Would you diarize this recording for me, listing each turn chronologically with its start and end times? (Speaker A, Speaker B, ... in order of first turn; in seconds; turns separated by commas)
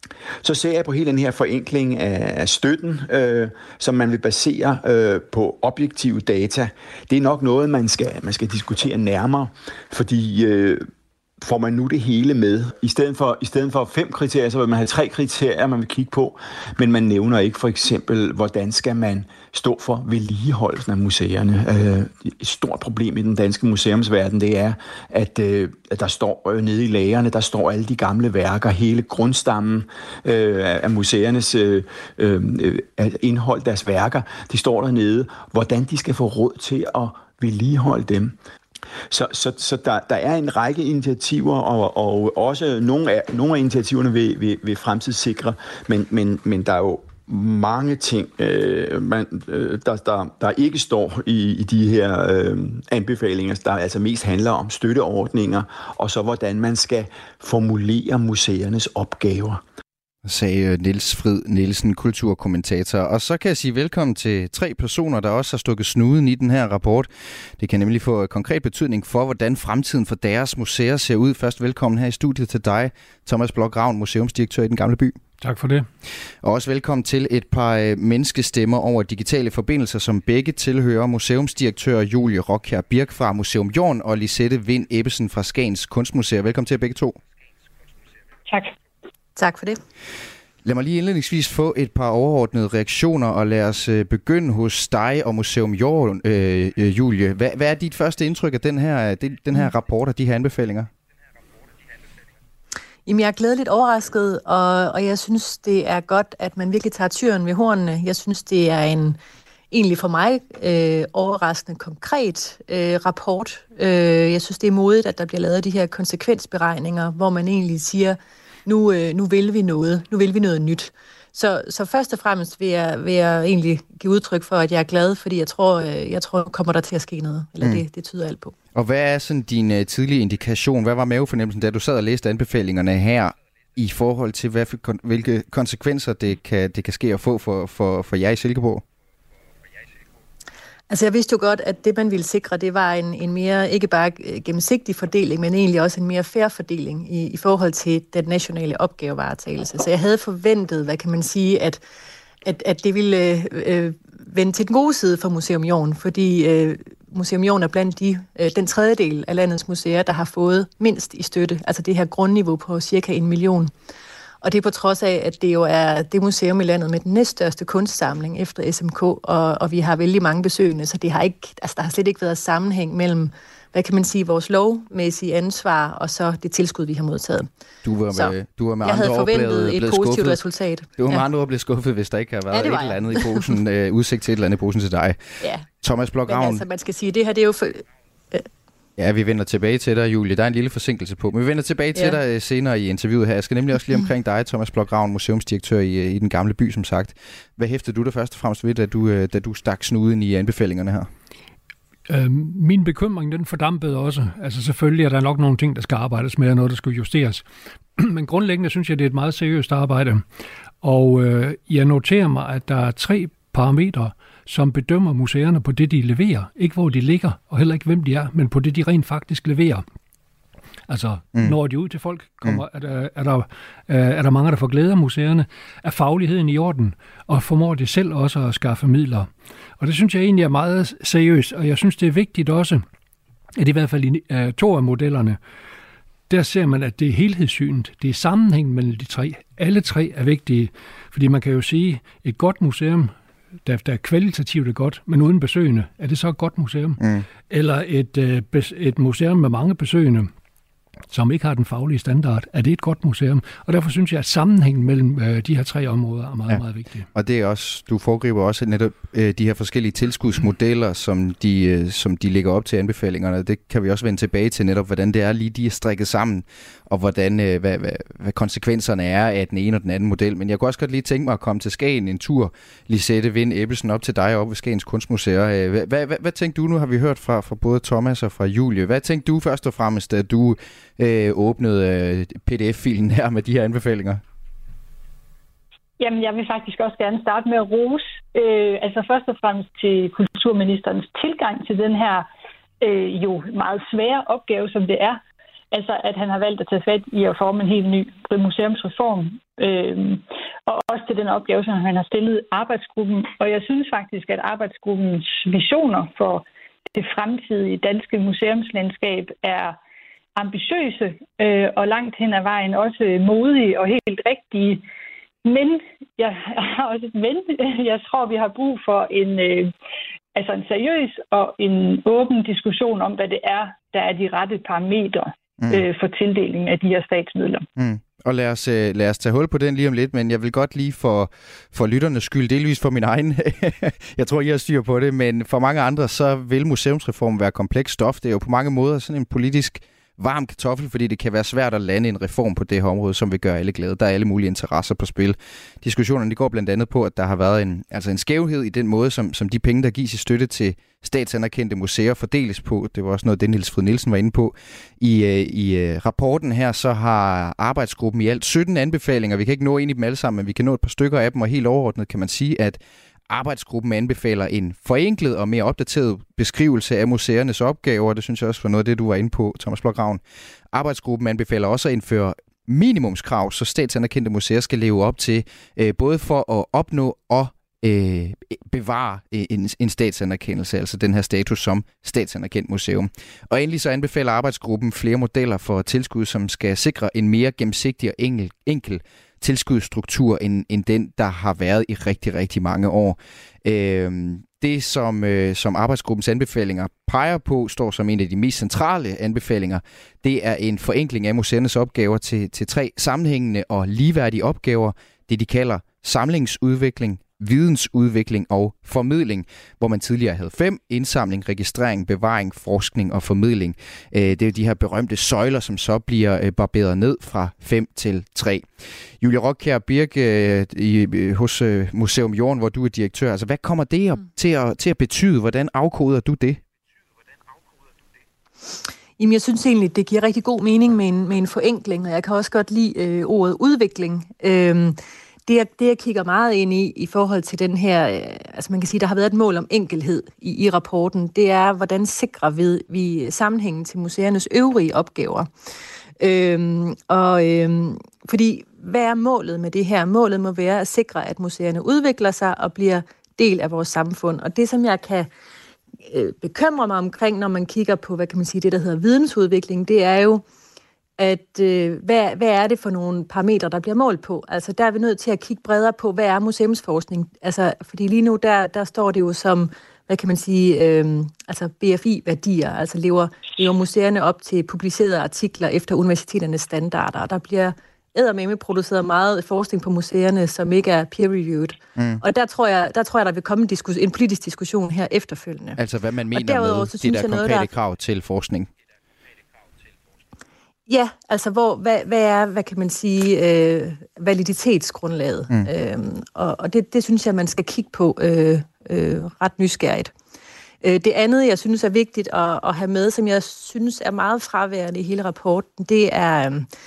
Speaker A: 0.4-10.9, Speaker A: 11.4-38.3, Speaker A: 39.1-59.6, Speaker B: 60.2-75.2, Speaker C: 75.4-75.9, Speaker B: 76.4-87.2, Speaker D: 88.5-88.7, Speaker E: 89.3-89.8, Speaker B: 90.6-100.9, Speaker E: 103.0-109.2, Speaker E: 109.7-128.5, Speaker B: 128.7-138.8, Speaker E: 140.9-151.8, Speaker E: 152.4-163.7, Speaker E: 164.4-177.5, Speaker B: 177.8-180.4, Speaker E: 178.1-181.2, Speaker B: 181.0-185.2, Speaker E: 182.5-183.4, Speaker B: 185.8-186.6, Speaker E: 186.3-188.5, Speaker B: 189.0-201.1, Speaker C: 202.1-207.4, Speaker C: 208.0-210.2, Speaker C: 210.8-219.8, Speaker C: 220.9-232.8, Speaker C: 233.6-235.4, Speaker C: 236.3-243.1, Speaker C: 243.6-250.3, Speaker C: 251.1-257.1, Speaker B: 257.1-284.2, Speaker D: 286.0-292.2, Speaker D: 292.8-295.2, Speaker D: 295.7-309.8, Speaker D: 310.4-314.8, Speaker D: 315.4-319.7, Speaker D: 320.3-327.7, Speaker B: 327.8-370.2, Speaker B: 370.7-418.7, Speaker B: 419.2-426.6, Speaker E: 429.2-445.5, Speaker E: 446.2-455.3, Speaker E: 456.1-460.4, Speaker E: 461.2-485.8, Speaker B: 482.0-482.2, Speaker B: 485.8-488.7, Speaker E: 486.3-487.7, Speaker E: 490.9-500.1, Speaker E: 500.8-506.7